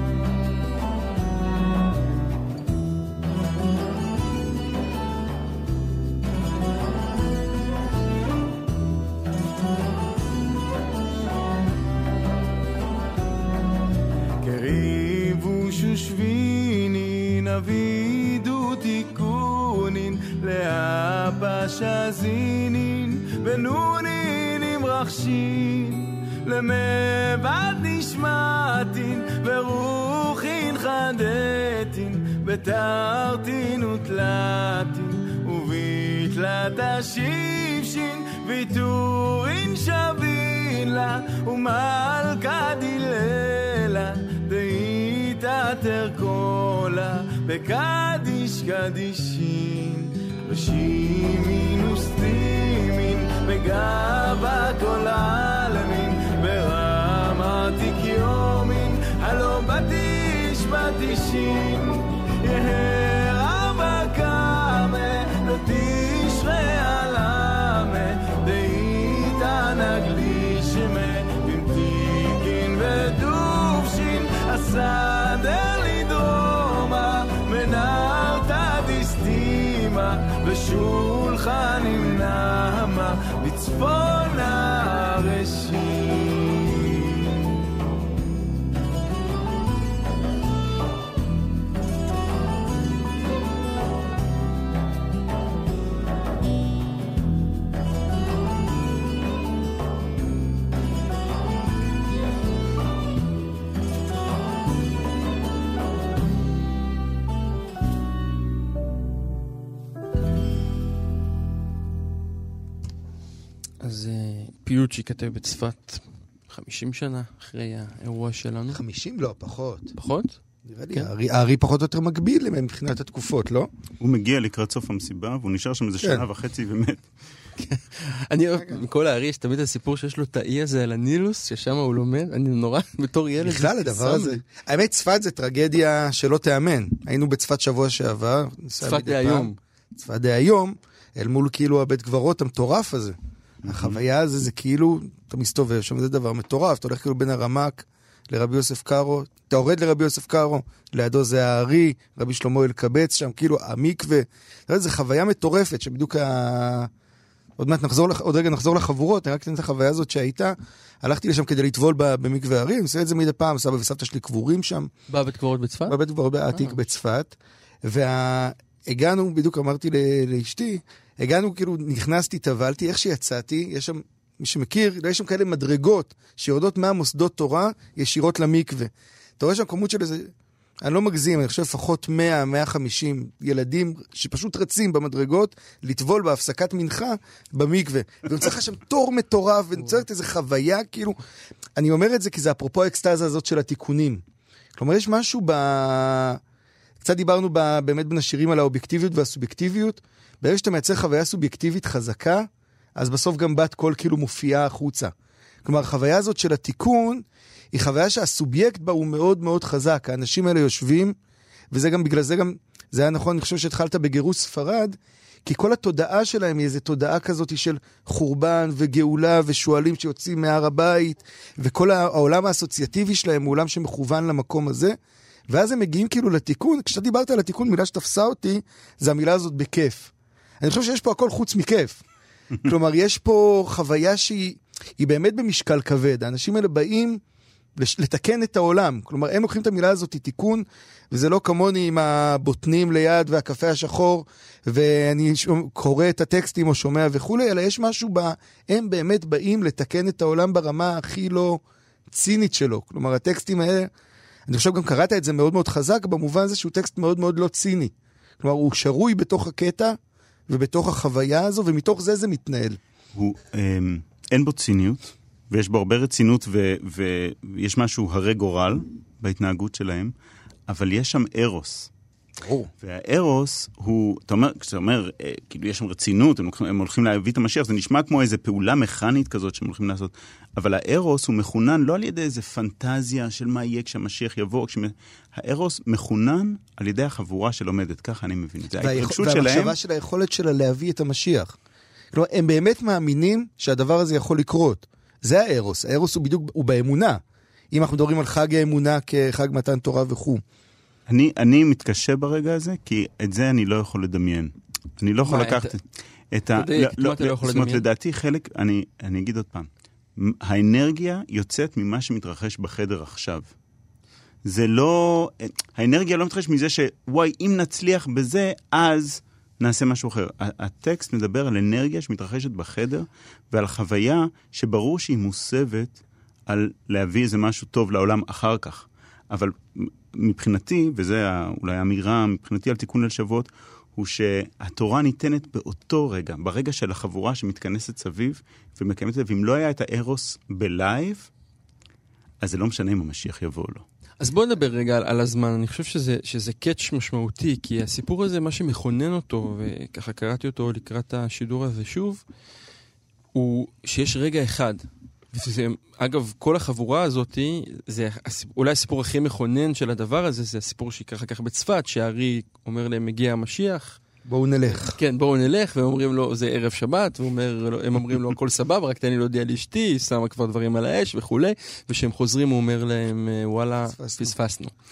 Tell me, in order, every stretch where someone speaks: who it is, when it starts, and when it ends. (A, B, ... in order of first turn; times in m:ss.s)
0:14.4-1:27.4 A
1:53.8-1:58.8 B
1:58.7-1:59.9 C
2:00.0-2:00.4 B
2:00.6-2:03.7 C
2:04.0-2:07.1 D
2:07.6-2:14.4 B
2:13.4-2:36.9 C
2:18.8-2:19.6 B
2:23.6-2:24.0 D
2:37.6-2:44.9 C
2:45.1-2:46.0 B
2:45.9-3:11.2 C
3:11.8-3:14.2 C
3:14.7-3:16.4 C
3:17.0-3:31.2 C
3:31.7-3:45.0 C
3:45.5-3:52.0 C
3:52.6-3:57.2 C
3:57.8-4:13.9 C
4:14.5-4:20.0 C
4:20.5-4:22.8 C
4:23.1-4:30.1 D
4:30.7-4:31.9 D
4:32.4-4:32.7 C
4:32.8-4:49.8 D
4:48.8-4:51.6 C
4:52.1-4:57.2 C
4:57.7-5:00.4 C
5:01.1-5:13.5 D
5:05.2-5:05.7 B
5:06.5-5:07.8 B
5:14.4-5:41.3 D
5:42.4-5:43.8 D
5:44.2-5:52.2 B
5:53.3-6:04.0 B
6:04.2-6:05.0 C
6:04.7-6:14.7 B
6:13.9-6:14.3 C